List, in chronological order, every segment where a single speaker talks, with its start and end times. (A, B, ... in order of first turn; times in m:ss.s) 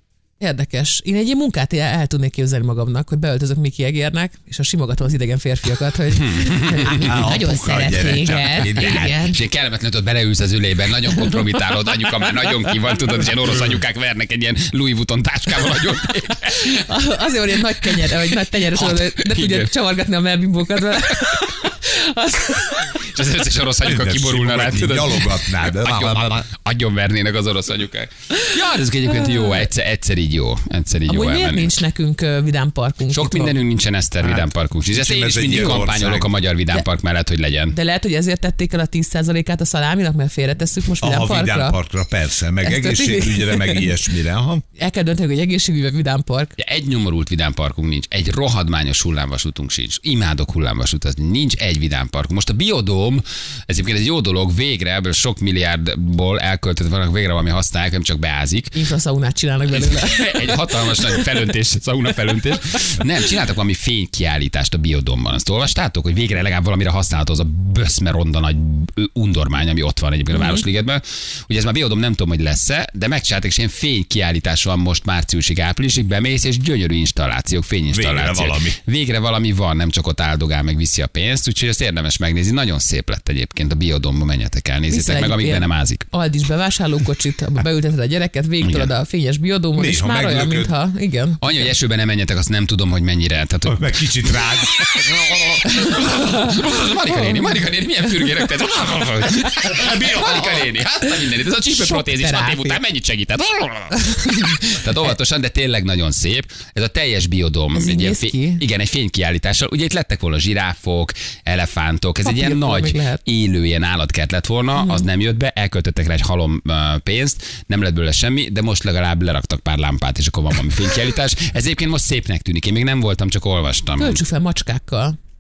0:00.4-0:09.4 A
0:06.1-0:07.2 B
0:06.9-0:09.1 C
0:08.3-0:16.8 B
0:16.5-0:23.0 A
0:17.8-0:19.7 B
0:23.0-0:31.7 B
0:23.8-0:26.5 C
0:29.1-0:29.6 A
0:31.1-0:33.6 A
0:33.1-0:37.8 B
0:34.3-0:36.3 C
0:37.7-0:41.8 A
0:41.0-0:44.6 C
0:42.6-0:43.9 A
0:44.8-0:46.6 A
0:46.6-0:58.8 B
0:58.7-1:01.2 A
0:59.7-1:26.1 B
1:10.3-1:10.6 A
1:17.9-1:18.8 C
1:24.9-1:31.7 A
1:28.6-1:28.9 B
1:29.8-1:30.7 C
1:31.4-2:04.2 B
1:33.7-1:34.8 C
1:35.7-1:36.5 A
1:37.1-1:37.6 A
1:39.7-1:40.7 C
1:41.8-1:42.8 A
1:44.0-1:44.5 A
1:47.8-1:48.6 A
1:52.2-1:53.2 A
1:54.8-1:55.1 A
2:04.0-2:05.2 A